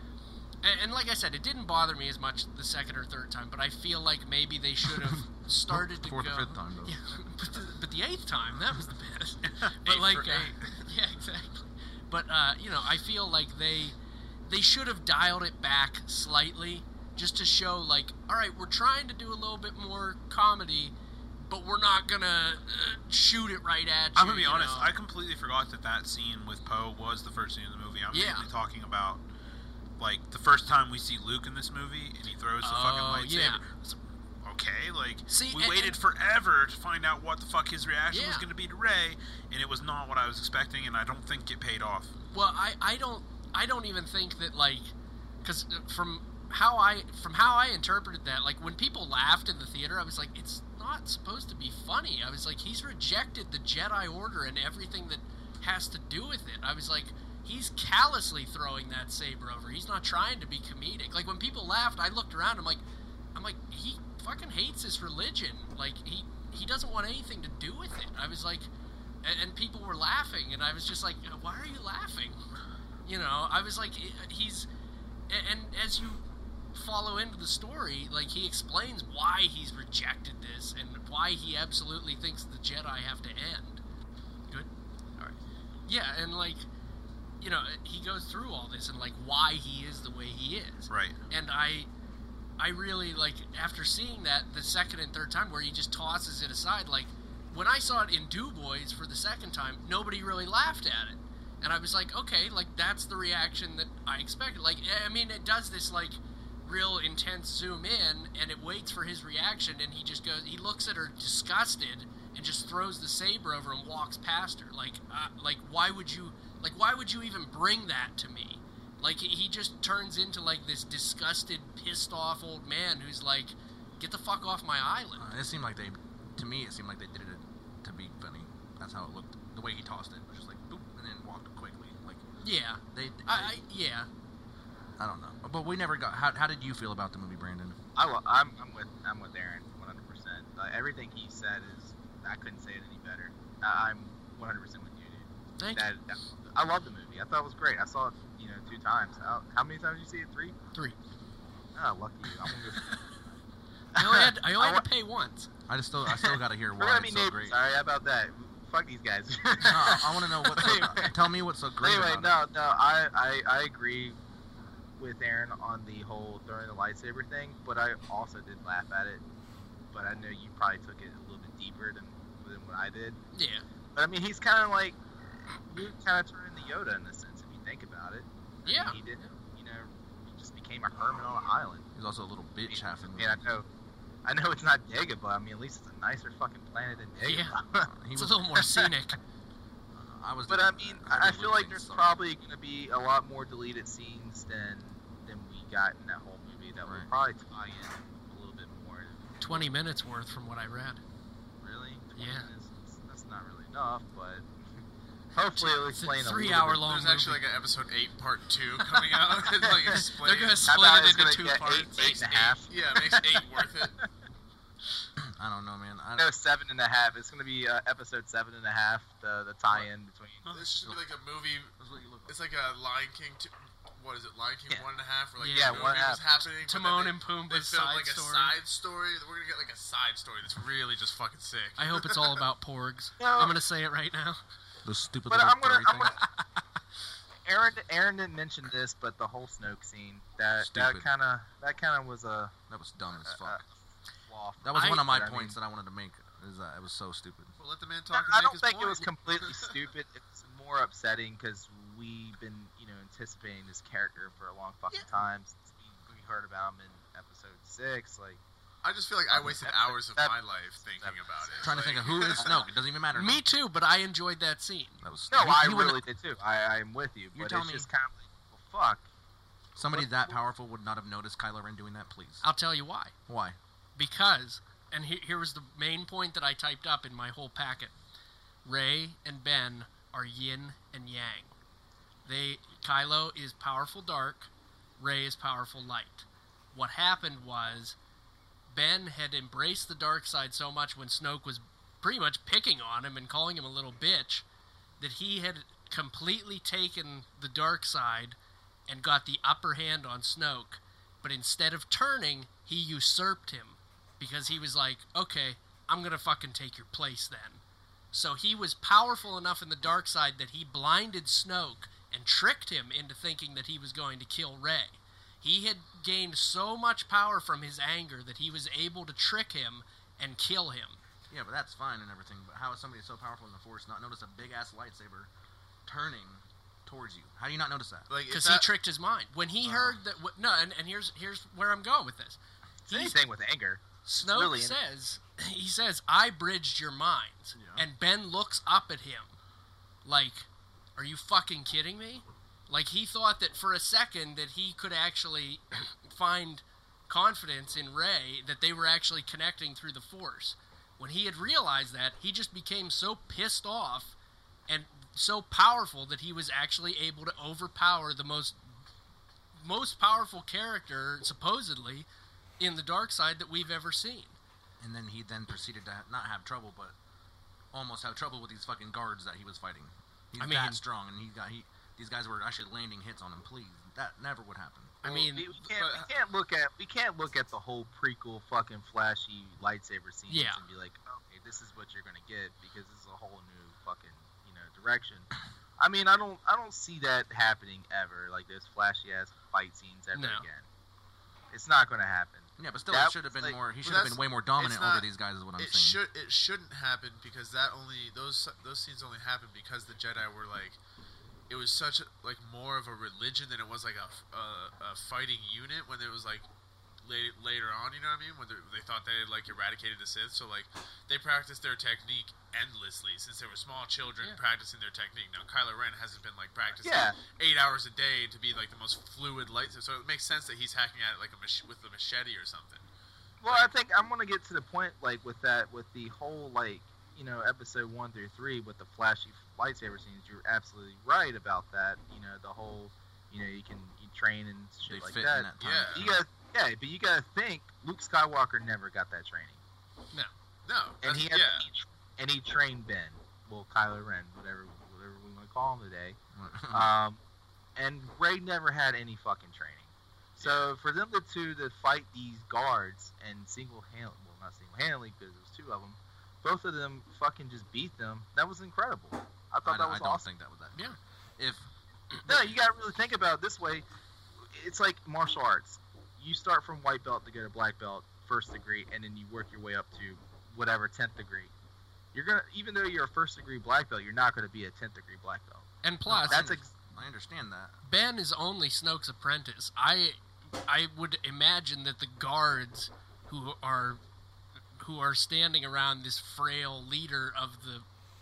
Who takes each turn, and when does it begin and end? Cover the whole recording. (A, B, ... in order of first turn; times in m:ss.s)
0:00.6-0:14.0 A
0:05.0-0:07.0 B
0:09.4-0:10.8 C
0:14.5-0:24.9 A
0:24.2-0:29.2 C
0:28.1-0:28.5 A
0:30.0-0:42.1 C
0:32.6-0:33.6 A
0:35.3-0:36.0 A
0:38.1-0:38.5 A
0:42.3-0:44.9 A
0:45.4-1:02.8 A
1:03.3-1:08.7 A
1:09.2-1:12.4 A
1:13.0-1:14.7 A
1:15.3-1:23.8 A
1:25.9-1:26.7 A
1:27.4-1:31.9 A
1:30.9-1:31.2 C
1:32.6-2:05.3 A
2:05.2-2:12.2 B
2:12.4-2:14.1 A
2:12.9-2:13.6 B
2:15.0-2:17.8 B
2:18.0-2:30.6 D
2:25.6-2:25.8 A
2:31.8-2:33.2 D
2:34.0-2:35.5 A
2:34.0-2:34.8 D
2:35.7-2:37.6 B
2:36.1-2:41.2 D
2:39.6-2:42.4 B
2:41.8-2:44.2 D
2:45.0-2:49.2 D
2:49.9-2:53.2 D
2:53.3-2:53.6 A
2:54.0-3:01.9 D
2:58.6-2:59.3 A
3:02.0-3:03.4 B
3:02.7-3:03.7 D
3:04.2-3:07.9 D
3:07.2-3:07.6 A
3:07.9-3:08.6 B
3:08.1-3:09.2 A
3:08.6-3:08.9 D
3:09.9-3:12.1 B
3:10.5-3:19.7 D
3:19.4-3:21.0 A
3:21.6-3:24.5 D
3:22.2-3:22.5 A
3:25.3-3:26.8 D
3:25.6-3:27.4 A
3:26.8-3:30.7 E
3:29.6-3:30.0 D
3:29.9-3:32.4 A
3:30.6-3:34.0 D
3:32.2-3:34.0 E
3:35.2-3:36.3 B
3:36.2-3:40.4 D
3:40.5-3:41.0 B
3:40.5-3:41.8 E
3:41.8-3:42.4 B
3:42.3-3:52.4 E
3:45.4-3:46.0 A
3:45.5-3:46.2 D
3:46.7-3:48.6 A
3:51.8-3:54.4 A
3:53.2-3:53.6 D
3:54.8-3:56.2 B
3:55.3-3:56.2 D
3:57.5-4:02.5 D
4:00.6-4:01.1 B
4:02.7-4:03.6 B
4:03.2-4:03.7 D
4:04.3-4:05.6 D
4:04.6-4:07.5 B
4:04.8-4:05.1 A
4:07.6-4:09.8 E
4:08.1-4:18.4 D
4:18.8-4:22.7 E
4:19.3-4:20.3 D
4:20.8-4:22.6 D
4:21.6-4:23.4 B
4:23.1-4:25.0 A
4:25.0-4:26.0 B
4:25.3-4:29.1 D
4:27.4-4:27.9 B
4:29.8-4:30.4 D
4:29.8-4:32.4 B
4:32.4-4:33.1 A
4:33.3-4:33.6 B
4:34.0-4:37.9 A
4:38.6-4:41.5 A
4:42.3-4:48.0 A
4:48.7-4:54.4 A
4:55.0-4:58.4 A
4:58.9-5:21.0 A
5:21.3-5:25.3 B
5:25.9-5:28.1 B
5:28.1-5:28.7 E
5:28.3-5:33.2 A
5:29.7-5:29.9 B
5:32.9-5:34.8 D
5:34.1-5:39.3 A
5:37.6-5:37.8 B
5:40.0-5:54.2 A
5:54.7-5:58.6 A
5:59.6-6:02.1 A
6:02.6-6:04.4 A
6:04.8-6:07.0 B
6:07.7-6:15.0 B
6:10.4-6:10.8 A
6:15.0-6:15.5 A
6:15.1-6:16.1 E
6:15.1-6:30.7 D
6:20.3-6:20.6 A
6:30.1-6:30.4 A
6:31.5-6:33.6 D
6:32.6-6:36.0 B
6:33.8-6:40.8 E
6:41.5-6:46.4 E
6:47.0-7:02.8 E
6:56.8-6:57.2 D
7:03.4-7:19.6 D
7:03.5-7:03.7 E
7:14.9-7:16.2 B
7:15.6-7:16.1 E
7:20.7-7:21.7 E
7:21.0-7:26.2 D
7:26.3-7:26.9 B
7:26.7-7:27.2 D
7:27.8-7:40.2 D
7:30.4-7:30.7 E
7:39.6-7:41.6 B
7:42.3-7:43.8 D
7:44.4-7:51.5 D
7:52.1-7:55.7 D
7:55.8-7:56.5 A
7:56.1-7:57.8 B
7:56.3-7:56.7 D
7:57.8-8:04.0 A
8:04.8-8:07.9 A